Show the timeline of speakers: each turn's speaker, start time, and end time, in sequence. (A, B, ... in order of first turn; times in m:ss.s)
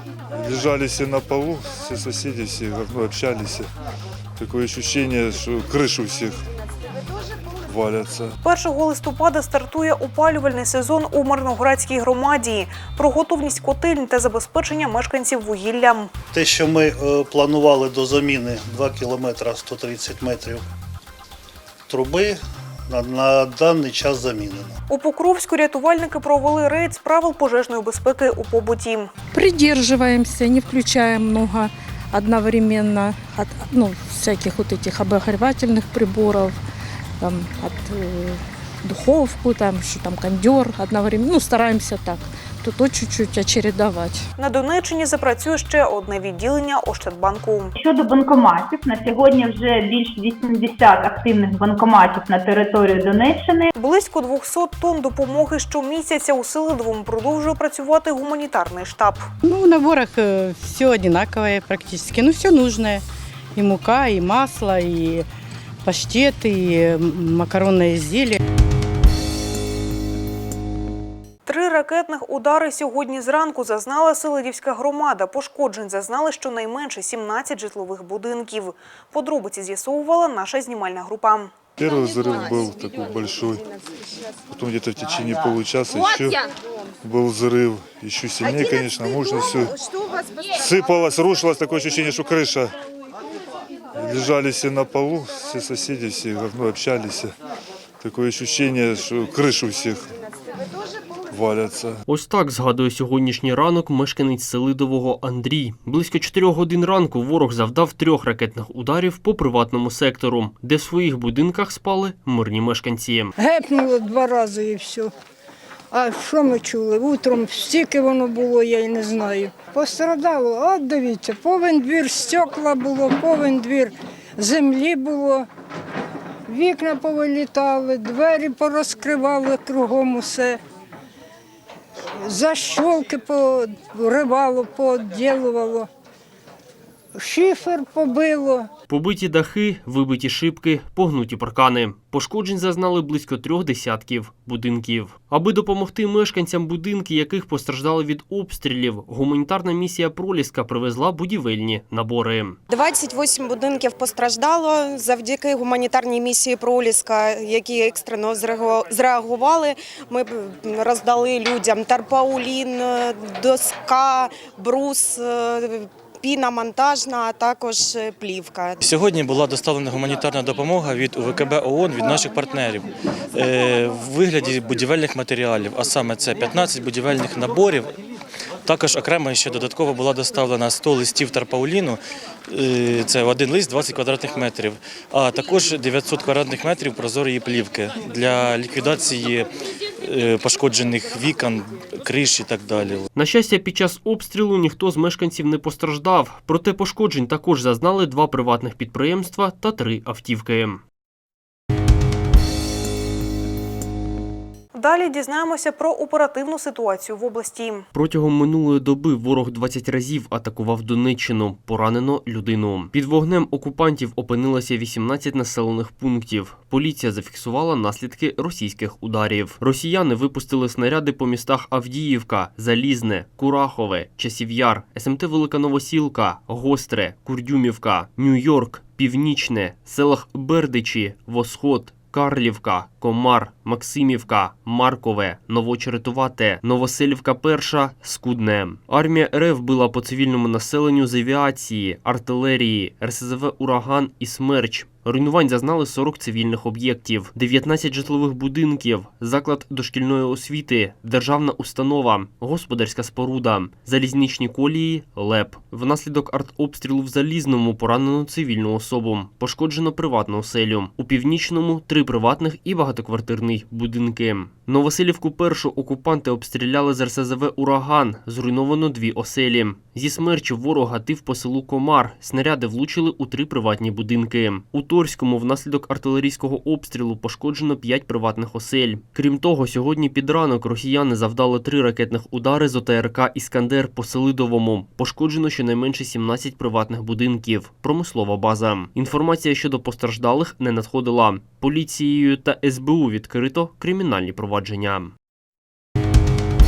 0:00.4-0:03.7 A
0:04.4-0:06.4 A
0:07.7-0:08.3 A
0:08.4-0:16.1 B
0:16.3-0:20.6 C
0:21.9-0:24.7 C
0:24.9-0:29.1 B
0:29.3-0:36.6 D
0:37.2-0:44.3 D
0:44.4-0:47.7 B
0:47.8-0:53.7 E
0:53.8-0:59.3 B
0:59.4-1:03.0 F
1:03.5-1:05.2 F
1:05.8-1:08.4 F
1:11.4-1:21.5 B
1:21.8-1:23.6 A
1:24.5-1:26.4 A
1:27.0-1:29.7 A
1:30.6-1:32.7 A
1:34.0-1:37.3 A
1:38.0-1:40.1 A
1:41.3-1:42.0 A
1:42.1-1:53.3 G
1:53.4-1:55.1 H
1:55.9-2:05.5 H
2:06.5-2:10.6 H
2:12.3-2:15.9 H
2:17.2-2:18.7 H
2:18.9-2:32.6 G
2:32.7-2:48.8 I
2:48.8-2:57.9 J
2:58.6-3:09.5 J
3:10.0-3:13.0 J
3:13.1-3:20.8 G
3:24.7-3:27.8 B
3:27.9-4:55.1 G